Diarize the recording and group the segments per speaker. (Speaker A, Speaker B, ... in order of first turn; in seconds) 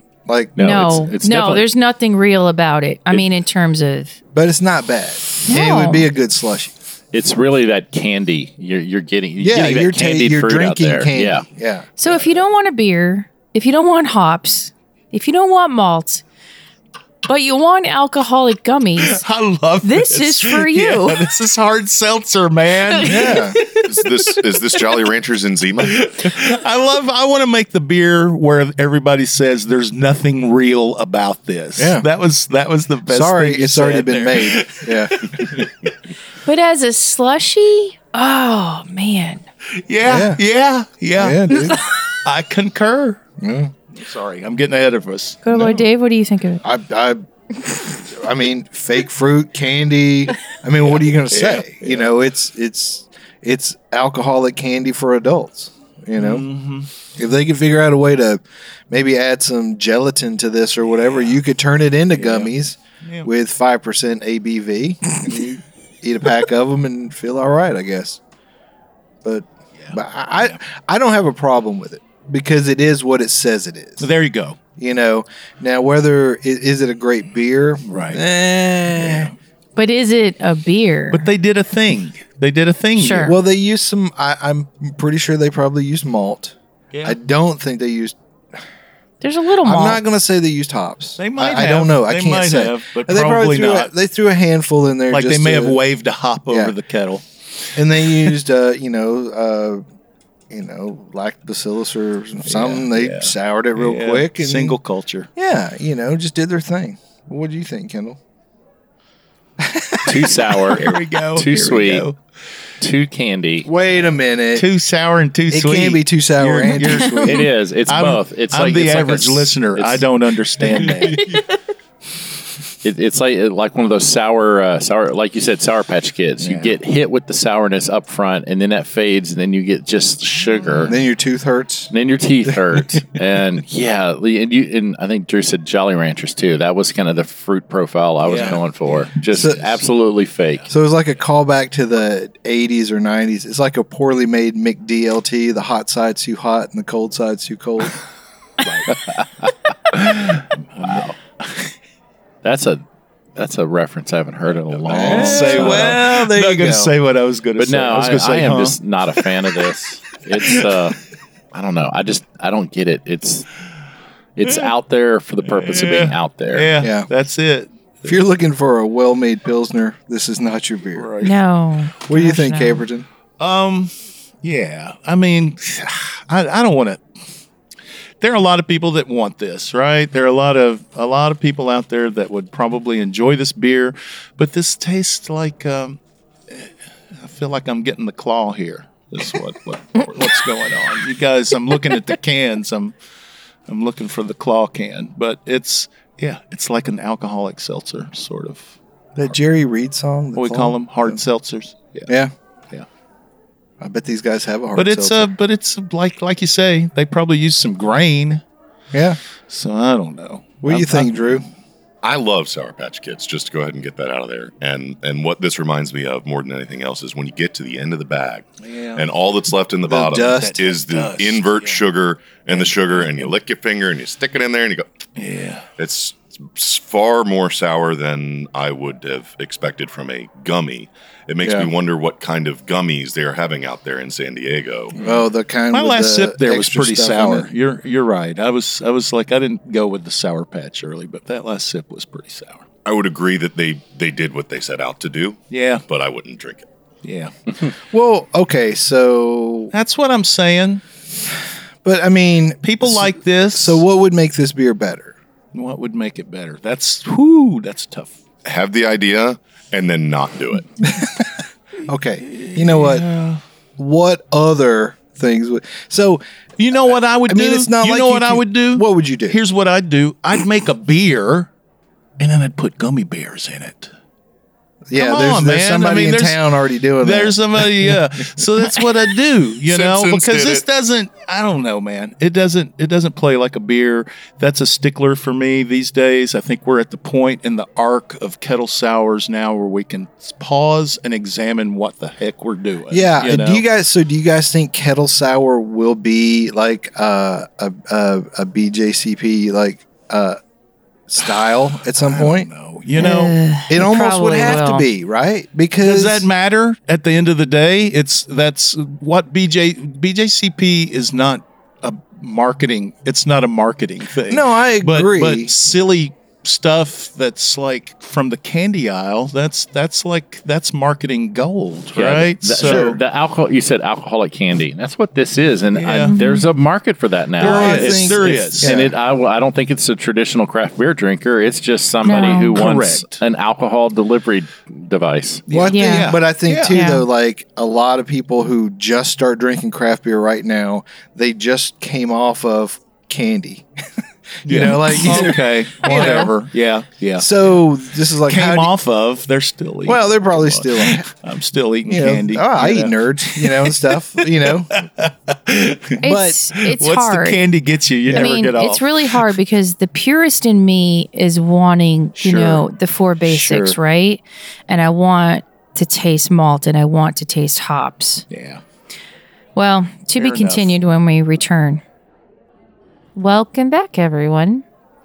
Speaker A: 0.3-1.0, 4.3-6.7, 9.4-12.3, 23.0-23.6, 31.8-32.0, 33.1-35.6, 40.0-40.4, 41.1-41.8, 43.4-43.7, 46.6-56.5, 57.1-68.2, 69.2-74.1, 74.8-79.3, 83.2-88.2, 89.6-95.8, 96.5-96.7, 97.7-99.8, 100.5-104.8, 105.3-108.2, 109.6-110.5, 113.6-114.7, 115.5-117.5, 130.8-131.9, 132.4-132.8, 138.3-138.6, 139.3-139.8, 140.7-147.9, 154.9-156.9, 166.8-167.1, 168.0-171.1, 172.1-173.1, 199.2-201.2, 203.8-205.3, 208.9-209.2, 210.6-211.4, 219.9-220.7, 231.4-231.7, 235.0-237.5, 247.9-249.7, 251.8-255.2, 260.8-261.3, 261.9-263.1, 263.8-266.2, 266.8-269.4, 274.9-277.9, 292.9-300.4, 301.1-302.5, 303.7-306.3, 314.3-315.5, 322.6-323.0, 327.4-328.9, 335.5-343.7, 344.4-346.3, 347.2-348.7, 349.8-351.1, 351.9-354.8, 356.0-356.4, 358.1-358.3
Speaker B: 0.6-1.6, 7.1-11.4, 110.1-112.1, 112.8-113.7, 117.2-120.1, 120.6-121.0, 122.8-130.9, 131.9-140.7, 150.8-151.1, 152.4-152.8, 153.3-156.0, 157.6-161.0, 161.5-163.5, 164.4-166.7, 321.9-335.4
Speaker C: 0.6-4.2, 5.5-6.1, 12.0-16.2, 17.2-19.2, 19.8-21.2, 22.9-23.1, 36.4-39.4, 45.4-46.6, 79.8-81.3, 83.0-83.3, 89.2-90.0, 116.8-117.2, 121.1-121.4, 171.2-172.8, 302.9-304.9, 326.1-326.4, 332.0-332.6, 335.7-336.1, 336.7-337.0, 345.9-346.1, 356.0-357.4, 358.1-368.2, 369.5-371.8, 373.1-374.6
Speaker D: 19.0-24.1, 25.9-35.9, 39.8-43.2, 43.9-45.7, 50.9-52.1, 56.2-56.9, 62.1-62.5, 69.8-70.6, 74.0-74.6, 77.8-78.2, 79.0-79.3, 81.1-83.3, 91.2-93.9, 95.1-97.2, 102.5-105.3, 110.7-112.2, 114.5-121.4, 126.4-126.7, 130.4-130.9, 138.2-139.1, 148.6-149.0, 149.9-151.7, 154.7-159.3, 160.4-160.9, 165.4-168.2, 170.9-171.3, 173.4-177.0, 178.2-192.9, 193.7-198.8, 200.3-202.1, 204.8-208.4, 209.5-211.5, 218.6-219.0, 220.3-221.8, 222.6-223.3, 225.2-225.7, 235.7-242.6, 245.5-245.8, 247.0-247.3, 249.7-250.8, 252.6-253.8, 255.5-258.2, 262.2-263.4, 266.6-271.5, 272.2-273.9, 274.9-276.4, 277.0-293.6, 301.2-303.3, 305.8-323.0, 325.7-326.1, 327.4-328.8, 332.1-333.2, 335.5-336.8, 344.4-347.5, 348.3-356.0, 356.6-359.3, 362.2-362.6, 363.2-363.8, 368.3-368.6, 370.1-370.7
Speaker E: 23.8-26.2, 212.0-224.8, 225.8-235.0, 242.8-246.7, 258.4-260.7, 279.6-280.6